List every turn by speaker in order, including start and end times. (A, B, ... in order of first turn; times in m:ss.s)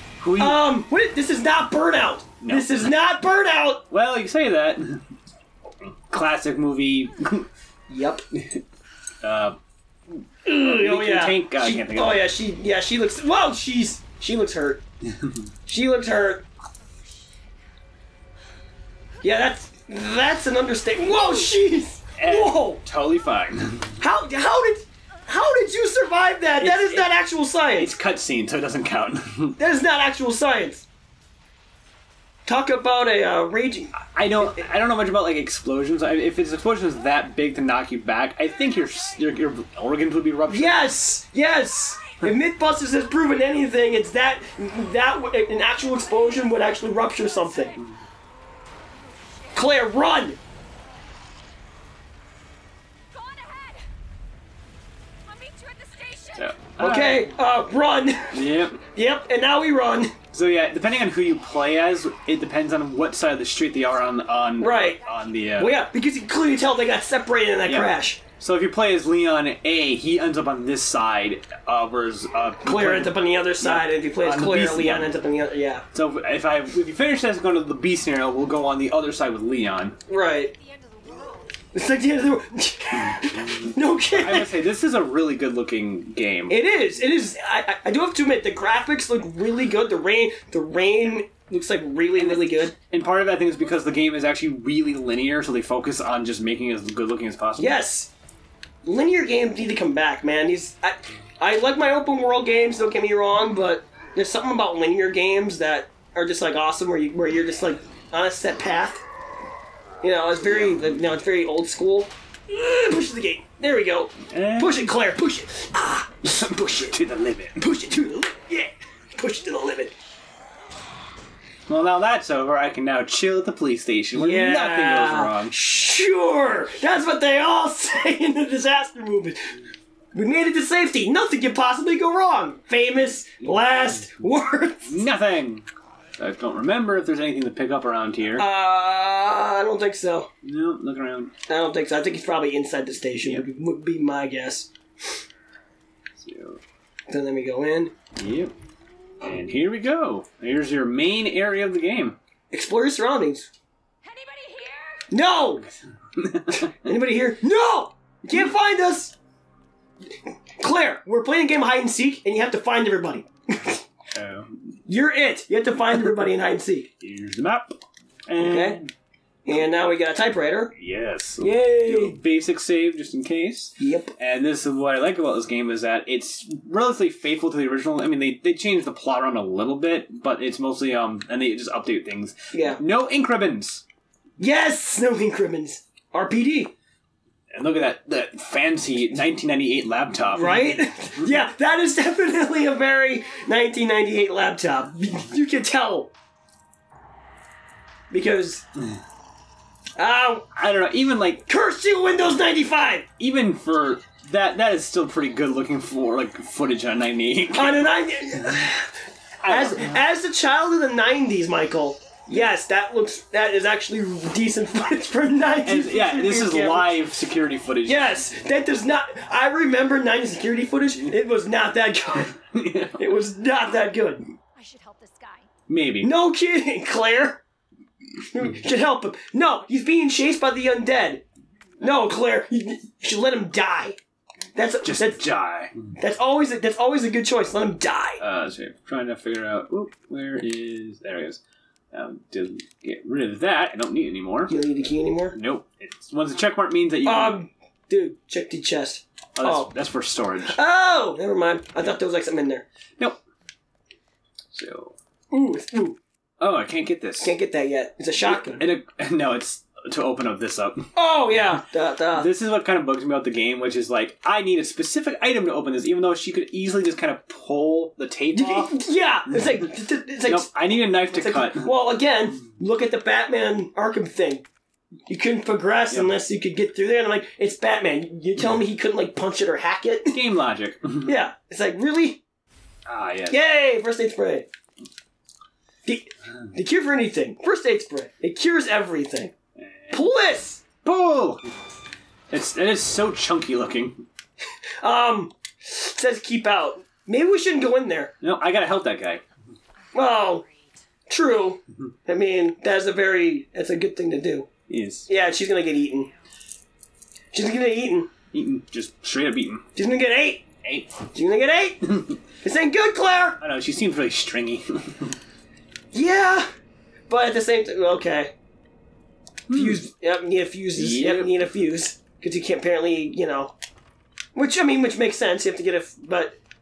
0:00.2-0:00.6 A
0:00.4-0:03.8 B
0:02.4-0:02.9 A
0:03.9-0:05.0 A
0:06.1-0:07.5 A
0:07.9-0:08.2 B
0:09.2-0:09.6 A
0:10.1-0:12.3 A
0:10.4-0:14.8 B
0:15.7-0:16.4 B
0:19.2-0:22.8 B
0:21.2-0:21.5 C
0:22.2-0:24.0 A
0:24.0-0:27.9 B
0:26.6-0:27.1 A
0:27.8-0:29.6 A
0:29.6-0:30.9 B
0:32.5-0:34.6 B
0:33.9-0:40.9 A
0:38.8-0:39.2 C
0:40.5-0:47.8 B
0:45.8-0:47.9 C
0:48.9-0:50.0 C
0:49.5-0:50.4 B
0:53.1-0:53.9 C
0:55.2-0:56.6 C
0:56.4-0:57.4 A
0:56.8-1:00.1 B
0:58.3-0:58.8 A
1:00.3-1:05.8 A
1:01.6-1:02.1 C
1:03.9-1:05.6 C
1:04.6-1:05.0 B
1:05.6-1:08.2 B
1:07.6-1:15.1 A
1:12.6-1:15.8 B
1:15.9-1:20.0 A
1:20.1-1:20.5 B
1:20.5-1:21.9 C
1:21.7-1:24.5 B
1:23.6-1:26.6 A
1:26.5-1:32.8 B
1:32.2-1:37.8 A
1:37.6-1:38.1 B
1:38.8-1:49.0 B
1:50.0-1:56.9 B
1:50.4-1:50.9 A
1:54.3-1:54.9 A
1:56.2-1:57.6 A
1:57.6-1:59.9 B
2:01.7-2:05.6 A
2:04.1-2:09.6 B
2:10.1-2:15.0 B
2:14.8-2:18.5 A
2:18.4-2:20.3 B
2:20.4-2:21.3 A
2:21.5-2:24.7 B
2:26.2-2:26.6 A
2:27.1-2:27.9 B
2:28.2-2:28.5 A
2:29.2-2:32.2 A
2:32.5-2:33.5 B
2:34.0-2:35.1 C
2:35.1-2:35.6 B
2:35.6-2:36.7 A
2:36.6-2:39.1 B
2:40.6-2:43.8 B
2:44.1-2:44.5 A
2:44.9-2:46.9 B
2:47.0-2:48.9 A
2:48.4-2:48.8 B
2:49.5-2:50.7 B
2:50.8-3:03.8 A
2:51.4-2:52.2 B
2:53.8-2:54.1 B
3:02.5-3:02.8 B
3:04.4-3:06.7 B
3:07.5-3:10.8 A
3:10.3-3:16.1 B
3:18.1-3:18.6 B
3:20.0-3:20.5 B
3:20.5-3:21.4 A
3:21.5-3:23.1 B
3:23.2-3:27.8 A
3:27.5-3:37.0 B
3:29.4-3:30.0 A
3:35.6-3:38.2 A
3:37.8-3:42.4 B
3:42.5-3:43.1 A
3:42.9-3:44.2 B
3:44.6-3:45.5 C
3:45.7-3:46.1 A
3:46.0-3:47.4 B
3:48.3-3:51.2 B
3:51.8-3:54.0 B
3:54.6-3:55.3 B
3:54.8-3:55.9 A
3:56.0-3:58.2 B
3:58.2-4:01.4 A
4:01.9-4:04.5 A
4:04.5-4:05.4 B
4:05.3-4:07.4 A
4:07.0-4:09.7 B
4:09.4-4:10.6 A
4:10.4-4:12.6 B
4:14.5-4:15.0 A
4:15.3-4:16.0 B
4:16.4-4:17.3 A
4:17.2-4:18.6 B
4:18.2-4:20.9 A
4:20.9-4:22.3 B
4:22.1-4:28.8 A
4:28.3-4:34.4 B
4:29.3-4:29.6 A
4:30.2-4:31.7 A
4:35.1-4:40.2 B
4:35.9-4:36.2 A
4:40.1-4:41.2 A
4:41.0-4:42.2 B
4:42.9-4:43.4 A
4:43.3-4:44.5 B
4:45.8-4:49.3 B
4:49.6-4:50.0 A
4:49.9-4:50.6 B
4:50.8-4:51.4 A
4:52.3-4:54.0 A
4:54.8-4:58.1 B
4:58.2-4:59.2 A
4:59.9-5:00.8 C
4:59.9-5:00.4 B
5:01.1-5:04.5 B
5:04.7-5:05.1 A
5:05.1-5:06.1 B
5:07.3-5:08.1 B
5:08.3-5:09.7 A
5:09.7-5:10.4 B
5:10.6-5:11.0 A
5:11.1-5:13.4 B
5:13.4-5:15.2 A
5:15.9-5:16.5 B
5:17.1-5:18.3 B
5:19.5-5:19.8 A
5:19.5-5:23.5 B
5:20.7-5:21.4 A
5:24.4-5:26.4 B